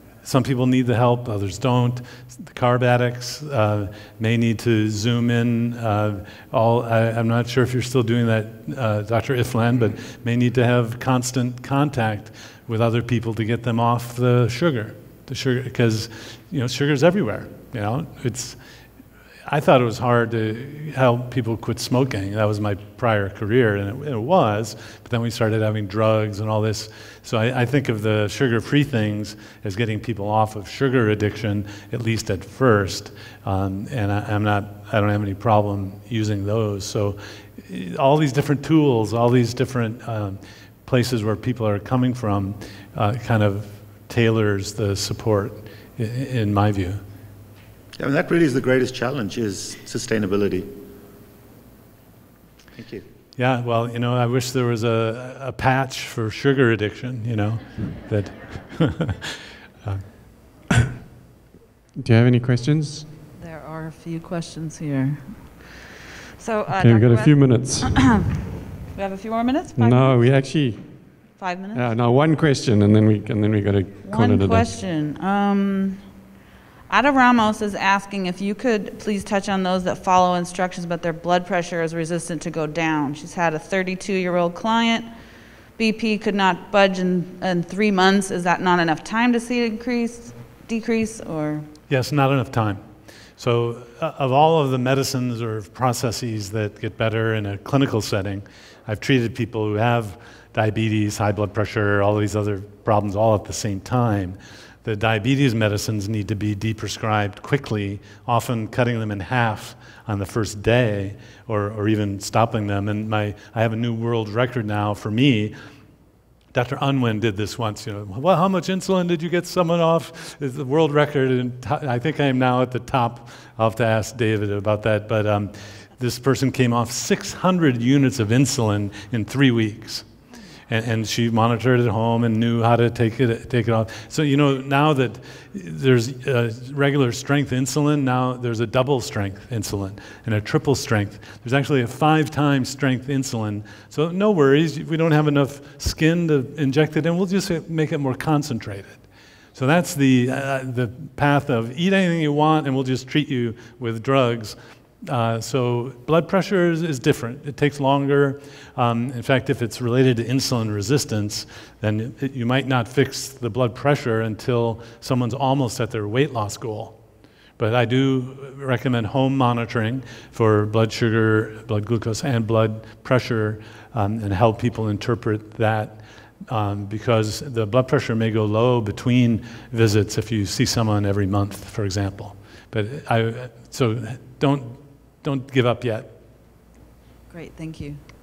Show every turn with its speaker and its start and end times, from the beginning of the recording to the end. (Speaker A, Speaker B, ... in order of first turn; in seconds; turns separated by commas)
Speaker A: 0.2-18.6, Speaker A: 19.5-47.0, Speaker B: 48.0-50.7, Speaker B: 52.8-53.0, Speaker A: 53.4-60.0, Speaker C: 62.0-63.0, Speaker D: 63.4-68.3, Speaker C: 66.8-67.9, Speaker D: 68.9-70.5, Speaker C: 69.8-70.9, Speaker D: 71.3-71.9, Speaker C: 71.7-74.8, Speaker D: 74.0-76.0, Speaker D: 76.9-85.1, Speaker D: 85.8-91.7, Speaker A: 91.9-92.8, Speaker A: 93.4-115.5, Speaker A: 116.5-130.1, Speaker A: 130.7-149.0, Speaker A: 149.5-166.9, Speaker A: 167.6-186.1, Speaker D: 187.3-188.0